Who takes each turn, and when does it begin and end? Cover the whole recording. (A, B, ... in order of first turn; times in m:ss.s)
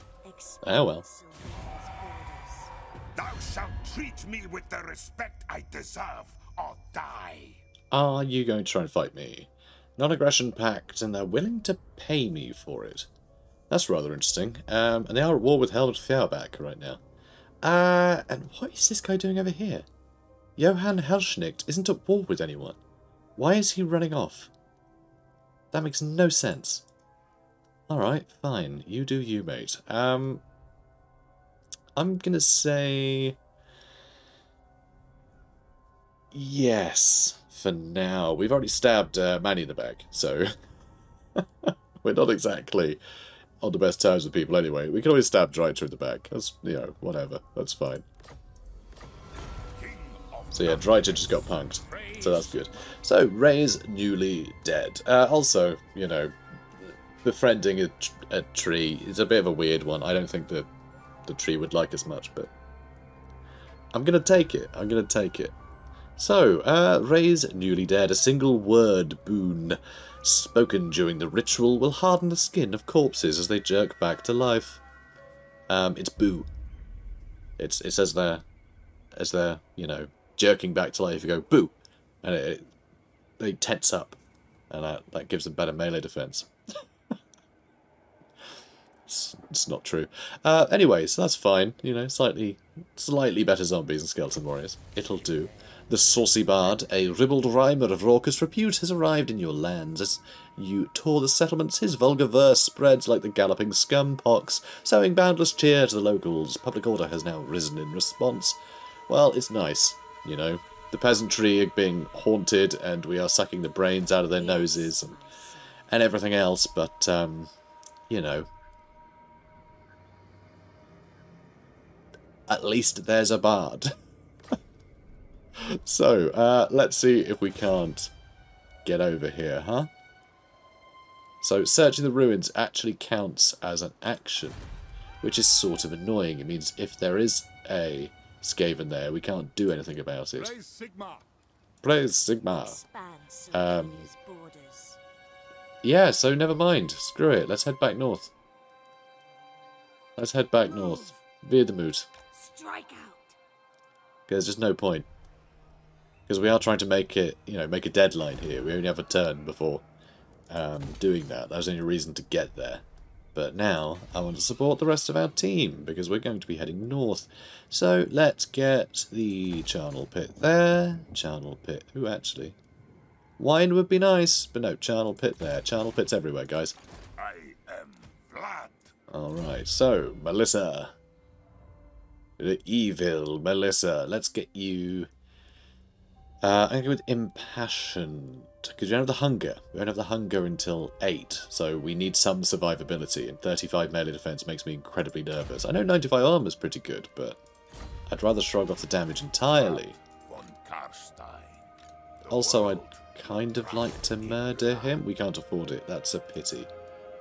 0:00.2-0:02.7 A
0:00.6-0:01.1 B
0:03.2-0:07.6 C
0:07.9-0:13.1 B
0:13.7-0:17.0 B
0:17.6-0:19.9 B
0:20.6-0:22.8 B
0:23.4-0:24.5 B
0:25.7-0:26.8 B
0:27.9-0:30.4 B
0:32.0-0:33.4 B
0:36.3-0:40.5 B
0:41.4-0:43.0 B
0:43.6-0:48.0 B
0:49.8-0:52.6 C
0:50.5-1:00.7 B
1:01.3-1:02.5 B
1:03.9-1:05.5 B
1:06.2-1:14.8 B
1:15.7-1:16.5 B
1:17.6-1:18.4 B
1:19.1-1:22.7 B
1:23.4-1:24.2 B
1:24.7-1:26.5 B
1:29.1-1:55.2 B
1:54.1-1:55.8 A
1:55.9-1:57.5 B
1:58.1-1:58.5 B
2:02.5-2:03.9 B
2:05.6-2:08.1 B
2:08.8-2:09.9 B
2:11.4-2:14.6 B
2:15.2-2:20.6 B
2:20.6-2:21.2 C
2:21.8-2:22.8 B
2:22.2-2:25.0 A
2:23.5-2:24.1 B
2:25.8-2:28.3 B
2:30.2-2:32.1 B
2:30.7-2:31.1 A
2:32.3-2:33.4 A
2:34.3-2:35.1 B
2:36.3-2:39.8 B
2:40.5-2:42.8 B
2:43.4-2:52.6 B
2:53.4-2:56.8 B
2:57.2-2:58.9 C
2:59.1-3:00.9 B
3:02.4-3:05.1 B
3:06.4-3:17.4 B
3:18.1-3:20.0 B
3:19.6-3:21.6 C
3:22.3-3:25.0 C
3:22.3-3:26.7 B